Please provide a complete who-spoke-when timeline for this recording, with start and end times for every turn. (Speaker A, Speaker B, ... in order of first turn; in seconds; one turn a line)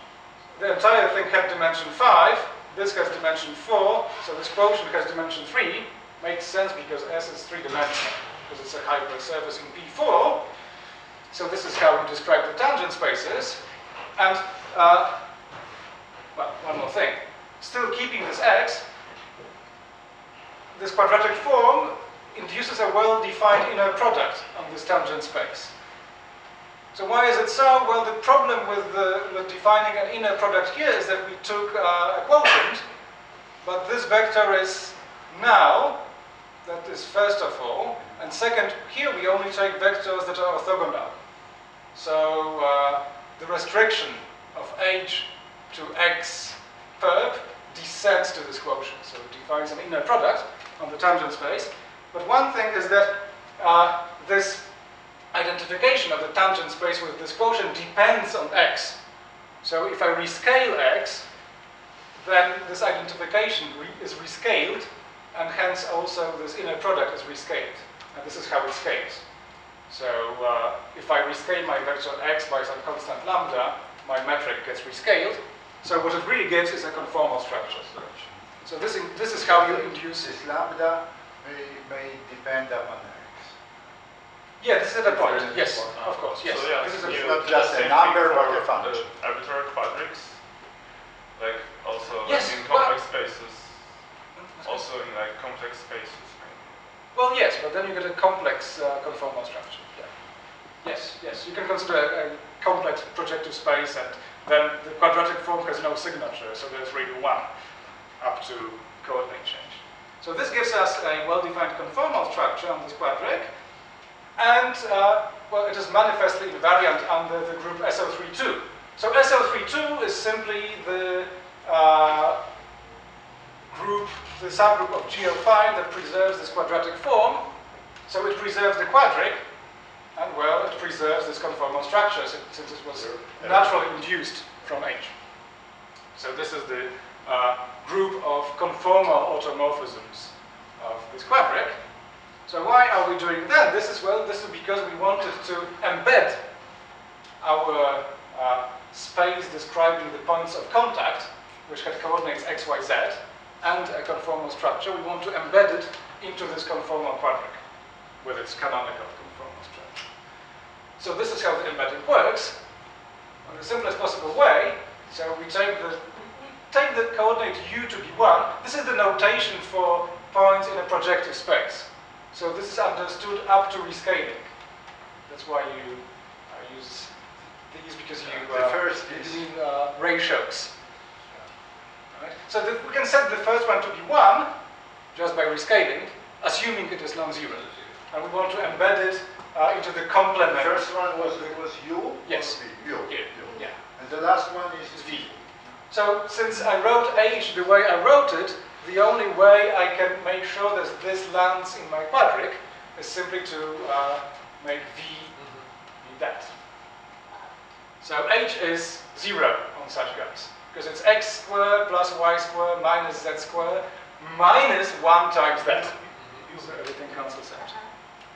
Speaker A: 0.5-10.5
Speaker A: 11.3-13.6
Speaker A: 14.2-15.2
Speaker A: 16.3-18.9
Speaker A: 20.7-25.7
Speaker A: 26.9-32.8
Speaker A: 33.6-36.0
Speaker A: 36.6-41.2
Speaker A: 41.9-54.7
Speaker A: 55.3-59.0
Speaker A: 59.6-61.3
Speaker A: 62.2-69.2
Speaker A: 69.9-77.9
Speaker B: 77.7-78.3
Speaker A: 78.6-80.3
Speaker C: 79.3-83.6
Speaker A: 84.6-87.4
Speaker C: 85.1-89.1
Speaker B: 85.1-90.4
Speaker B: 91.3-94.0
Speaker A: 92.2-93.0
Speaker A: 94.4-94.9
Speaker B: 94.6-96.9
Speaker A: 97.1-100.1
Speaker A: 100.8-107.5
Speaker A: 108.2-113.5
Speaker A: 114.4-122.4
Speaker A: 123.7-127.5
Speaker A: 128.1-129.4
Speaker A: 130.2-135.2
Speaker A: 136.2-141.8
Speaker A: 142.5-146.4
Speaker A: 147.4-157.6
Speaker A: 158.2-160.0
Speaker A: 161.0-162.6
Speaker A: 163.4-174.5
Speaker A: 175.3-177.2
Speaker A: 177.7-180.7
Speaker C: 178.3-179.5
Speaker A: 182.1-184.5
Speaker A: 185.1-191.5
Speaker C: 190.5-195.5
Speaker A: 192.2-193.8
Speaker A: 194.9-195.3
Speaker A: 195.9-205.4
Speaker A: 206.0-206.5
Speaker A: 208.0-217.8